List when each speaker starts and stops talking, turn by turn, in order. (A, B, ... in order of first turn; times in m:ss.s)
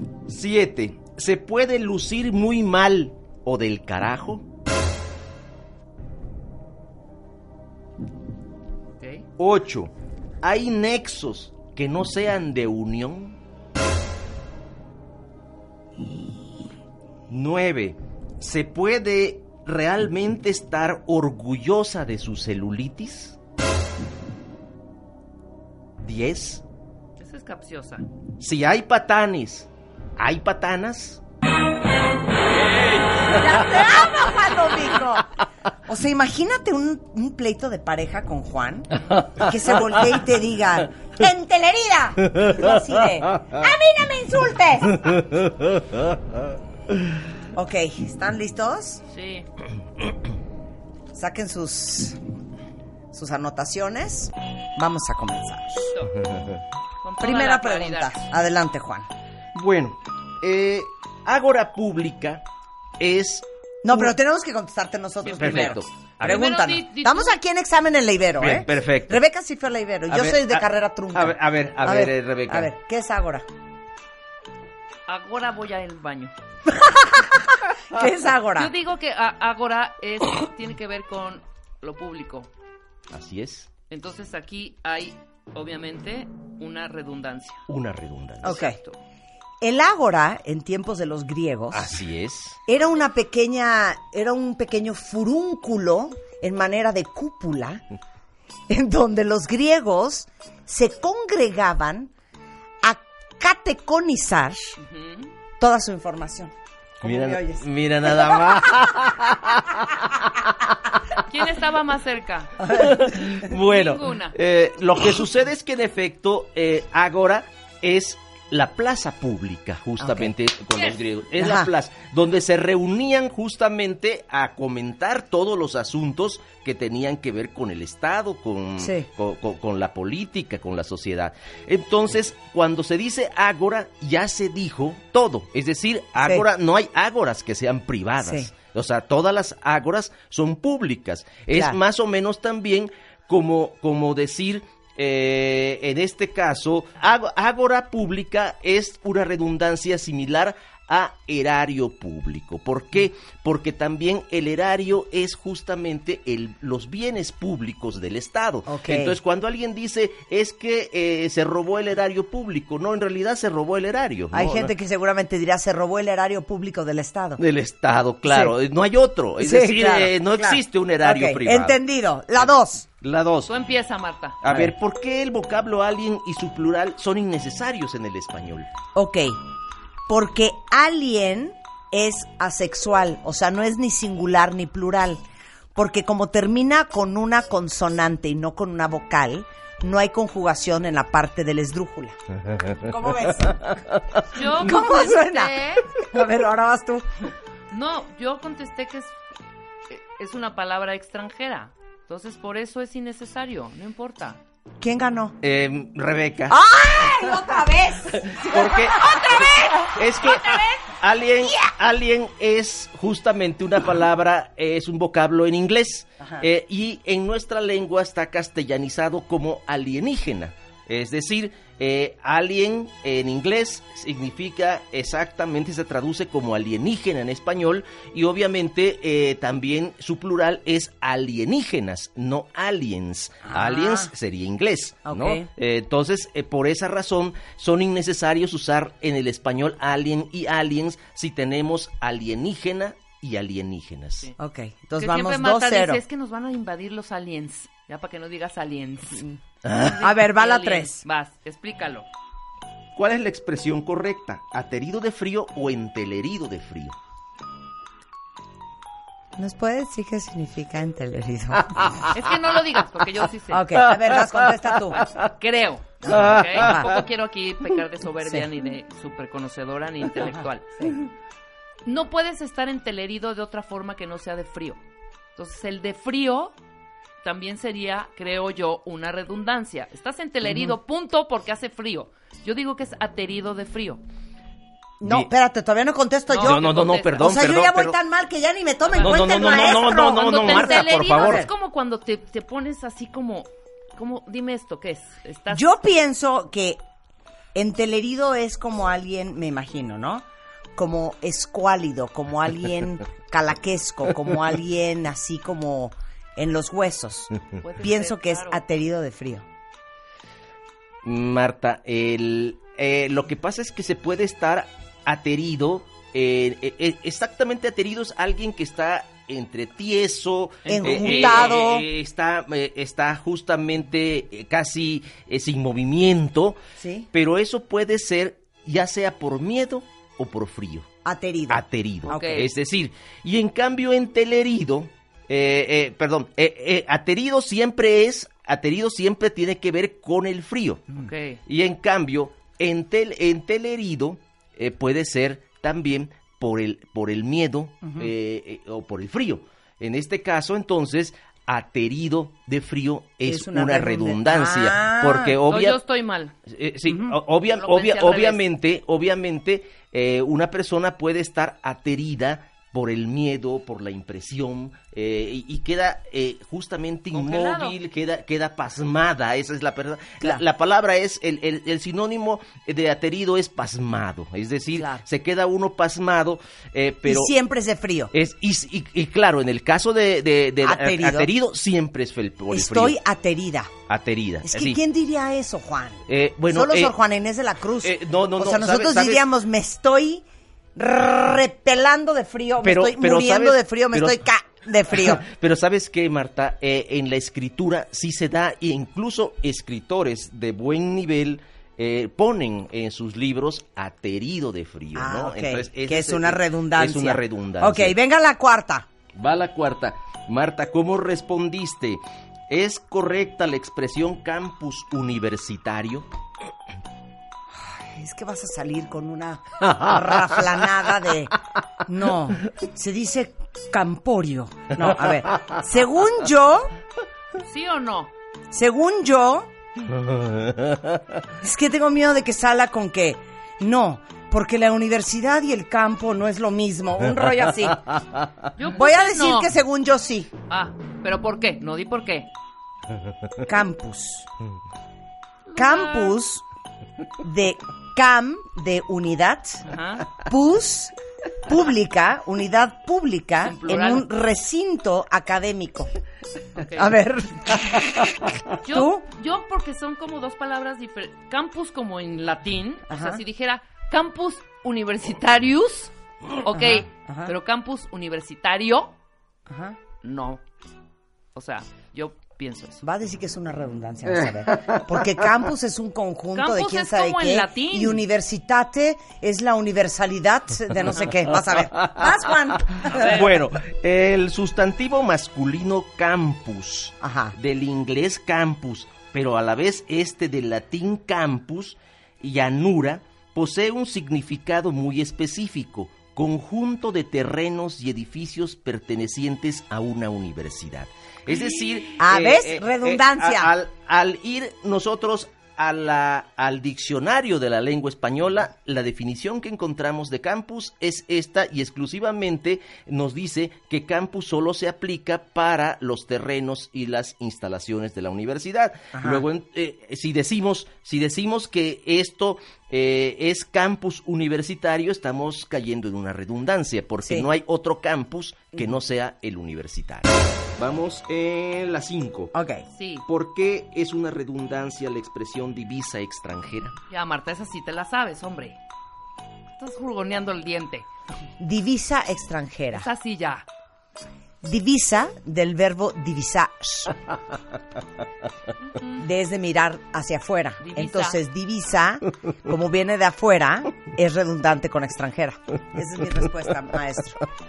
0:00.3-0:04.4 A
0:09.4-0:09.9 A
0:10.4-0:13.4 A
0:17.3-0:23.4 A
0:26.0-0:26.6 A
0:27.2-0:28.0 B
0:28.4-0:31.2 A
0:33.3-0:35.3 C
0:35.9-0:45.2 C
0:47.6-0:49.0 C
0:49.1-0:49.4 B
0:51.2-0:52.2 C
0:53.1-0:55.9 C
0:56.2-0:56.6 A
0:57.0-0:58.1 B
0:57.2-0:59.1 C
0:59.6-1:02.4 A
1:03.0-1:04.1 A
1:03.8-1:13.4 C
1:05.3-1:07.4 B
1:05.3-1:06.5 A
1:08.4-1:09.2 A
1:10.1-1:12.7 A
1:15.1-1:16.3 B
1:16.7-1:18.7 C
1:18.6-1:22.5 B
1:23.1-1:23.7 A
1:23.9-1:27.6 B
1:27.7-1:28.6 A
1:28.4-1:28.8 C
1:28.4-1:29.0 B
1:29.6-1:31.9 C
1:31.7-1:32.6 A
1:32.7-1:37.8 C
1:38.7-1:42.1 C
1:42.8-1:44.8 C
1:44.8-1:45.3 B
1:45.6-1:48.8 C
1:47.0-1:51.2 A
1:51.2-1:53.1 B
1:52.7-2:44.7 A
1:53.6-1:54.4 B
2:00.0-2:00.3 C
2:00.7-2:01.0 B
2:01.4-2:01.7 C
2:08.8-2:09.1 C
2:16.2-2:16.4 C
2:18.2-2:18.5 C
2:38.7-2:39.2 C
2:44.3-2:47.4 C
2:47.4-2:51.8 A
2:48.2-2:48.5 C
2:49.4-2:52.9 C
2:53.0-2:53.5 A
2:53.5-2:54.4 B
2:54.4-2:58.7 A
2:59.0-2:59.4 C
3:00.1-3:05.2 C
3:05.8-3:12.2 C
3:12.8-3:13.7 C
3:14.4-3:15.9 B
3:14.6-3:17.1 C
3:17.7-3:19.2 B
3:19.9-3:24.4 B
3:24.8-3:25.4 C
3:25.4-3:26.6 A
3:26.5-3:30.3 C
3:28.3-3:29.2 A
3:29.9-4:04.3 A
3:30.4-3:30.8 B
3:53.5-3:54.1 C
3:55.1-3:55.5 C
4:04.4-4:06.0 C
4:05.0-4:09.2 B
4:09.6-4:10.1 A
4:09.8-4:12.1 B
4:10.0-4:11.0 C
4:13.0-4:17.0 A
4:19.4-4:22.1 C
4:22.1-4:23.6 B
4:23.5-4:25.1 C
4:23.8-4:24.5 A
4:24.8-4:30.9 B
4:26.0-4:26.9 C
4:26.1-4:26.9 A
4:31.8-4:34.8 B
4:35.4-4:36.5 B
4:37.2-4:44.0 B
4:45.0-4:51.5 C
4:45.0-4:45.3 A
4:46.3-4:47.3 B
4:46.4-4:48.0 A
4:48.8-4:49.2 B
4:49.0-4:51.5 A
4:50.0-4:55.6 B
4:55.5-4:56.8 C
4:57.6-5:00.2 C
5:00.8-5:09.4 C
5:07.6-5:08.6 B
5:11.0-5:26.6 A
5:20.6-5:21.2 B
5:20.7-5:21.9 C
5:26.8-5:27.1 C
5:27.1-5:30.9 A
5:31.0-5:32.3 C
5:31.5-5:55.8 A
5:32.1-5:32.5 B
5:40.9-5:41.4 B
5:53.3-5:55.4 C
5:55.4-5:56.4 B
5:56.5-6:17.3 A
5:56.9-5:57.2 C
5:57.5-5:58.5 B
6:07.1-6:07.8 B
6:14.8-6:15.0 C
6:17.0-6:18.1 C
6:18.1-6:23.0 A
6:20.6-6:21.3 C
6:22.5-6:23.7 C
6:23.9-6:24.8 A
6:24.4-6:30.2 C
6:26.1-6:27.0 A
6:27.8-6:29.3 A
6:30.8-6:35.2 C
6:32.6-6:34.2 A
6:34.9-6:48.0 A
6:45.0-6:48.9 C
6:49.2-6:56.1 A
6:57.6-7:01.3 C
7:01.8-7:06.7 C
7:07.4-7:08.1 B
7:08.5-7:09.5 C
7:10.0-7:10.8 A
7:11.4-7:17.9 C
7:18.6-7:19.5 B
7:18.8-7:20.3 C
7:20.5-7:22.3 B
7:23.4-7:24.3 C
7:25.5-7:26.2 B
7:25.6-7:26.4 C
7:27.2-7:29.6 C
7:29.7-7:30.1 B
7:30.2-7:30.9 C
7:31.5-7:35.9 C
7:33.5-7:34.0 B
7:36.6-7:36.9 B
7:36.8-7:39.0 C
7:38.6-7:45.9 B
7:42.9-7:43.2 C
7:46.5-7:48.9 B
7:46.6-7:47.3 C
7:49.5-7:49.8 C
7:50.0-7:50.4 B
7:51.4-7:52.8 B
7:52.8-8:03.2 C
7:56.3-7:58.0 B
8:02.9-8:52.3 A
8:02.9-8:03.2 B
8:07.0-8:07.4 C
8:22.0-8:23.5 C
8:38.9-8:39.2 C
8:52.3-8:52.7 C
8:52.7-8:53.0 B
8:53.1-8:56.8 A
8:56.9-8:58.6 B
8:59.6-9:00.9 B
9:01.4-9:02.9 C
9:02.8-9:03.4 B
9:04.4-9:06.9 C
9:09.0-9:17.2 C
9:10.6-9:11.2 B